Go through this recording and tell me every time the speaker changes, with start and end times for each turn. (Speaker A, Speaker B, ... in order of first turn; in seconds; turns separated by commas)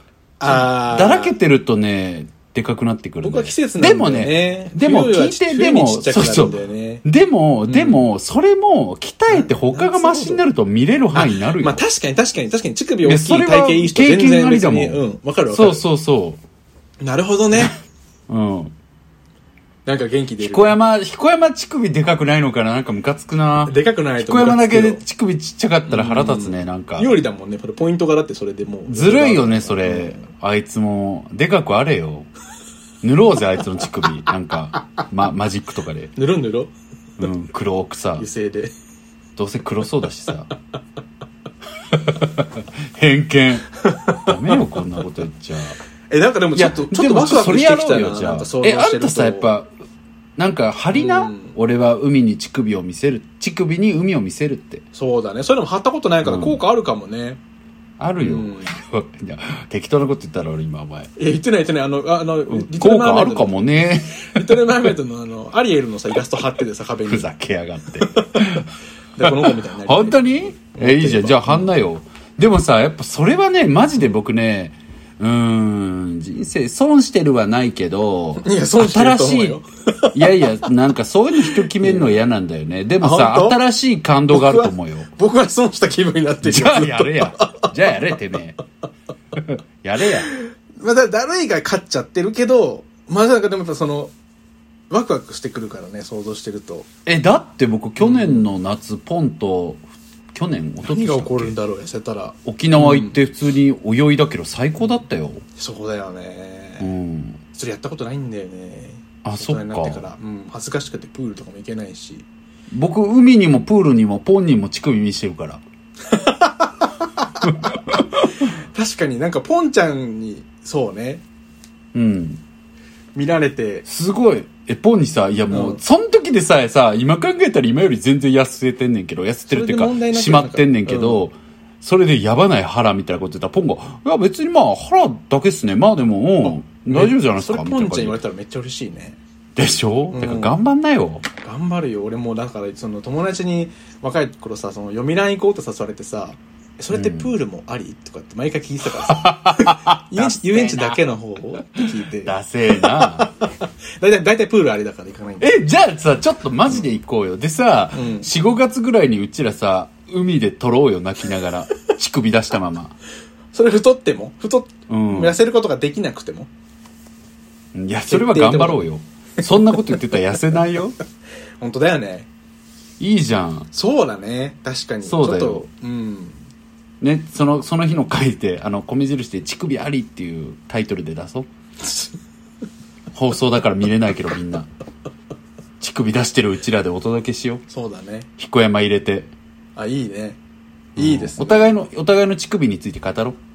Speaker A: 0.4-1.3, Speaker B: 0.4-11.8, Speaker A: 3.2-7.0, Speaker A: 7.7-8.1, Speaker A: 9.3-10.4, Speaker A: 11.1-15.8, Speaker B: 13.0-16.4, Speaker A: 17.0-17.7, Speaker B: 18.3-18.7, Speaker A: 19.9-20.8, Speaker B: 20.4-27.2, Speaker A: 23.6-25.0, Speaker A: 25.9-30.2, Speaker B: 28.9-32.3, Speaker B: 33.0-36.1, Speaker A: 36.1-36.7, Speaker B: 37.2-38.3, Speaker A: 38.2-38.7, Speaker B: 39.4-40.5, Speaker B: 41.9-45.8, Speaker A: 43.8-44.6, Speaker A: 46.1-49.5, Speaker B: 46.5-49.7, Speaker B: 50.4-54.8, Speaker A: 50.9-51.5, Speaker A: 54.9-57.4, Speaker B: 56.2-56.6, Speaker B: 58.0-61.1, Speaker A: 58.2-58.8, Speaker A: 61.2-63.7, Speaker B: 62.5-64.6, Speaker A: 64.2-67.3, Speaker B: 67.1-68.7, Speaker A: 68.0-68.6, Speaker A: 69.2-71.7, Speaker B: 69.2-79.6, Speaker A: 78.4-80.4, Speaker B: 80.1-85.1, Speaker A: 81.4-82.2, Speaker A: 83.0-83.6, Speaker A: 84.3-88.2, Speaker B: 86.4-88.6, Speaker B: 89.3-90.3, Speaker A: 90.3-94.1, Speaker A: 94.9-96.9, Speaker B: 97.0-101.5, Speaker A: 98.0-98.5, Speaker A: 100.8-103.2, Speaker B: 102.4-105.4, Speaker A: 105.5-106.9, Speaker B: 106.8-107.4, Speaker A: 107.5-112.2, Speaker B: 109.2-110.0, Speaker B: 112.7-115.6, Speaker A: 116.1-121.2, Speaker B: 117.4-118.3, Speaker B: 121.9-122.4, Speaker A: 123.1-123.8, Speaker B: 123.8-138.2, Speaker A: 125.5-125.8, Speaker A: 129.5-131.3, Speaker A: 136.4-139.2, Speaker B: 139.6-141.2, Speaker A: 140.1-140.5, Speaker A: 141.4-155.6, Speaker B: 146.9-147.3, Speaker B: 148.9-151.1, Speaker B: 152.2-153.3, Speaker B: 155.4-163.0, Speaker A: 157.9-158.3, Speaker A: 163.5-166.5, Speaker B: 164.9-165.3, Speaker B: 167.7-171.0, Speaker A: 168.1-168.8, Speaker A: 171.6-172.3, Speaker B: 173.0-173.7, Speaker A: 173.7-176.4, Speaker B: 175.1-175.6, Speaker B: 177.0-181.5, Speaker A: 181.8-182.1, Speaker B: 183.1-184.7, Speaker B: 185.8-187.6, Speaker A: 187.7-188.3, Speaker B: 188.4-189.3, Speaker A: 189.8-190.4, Speaker A: 190.9-191.7, Speaker B: 190.9-193.4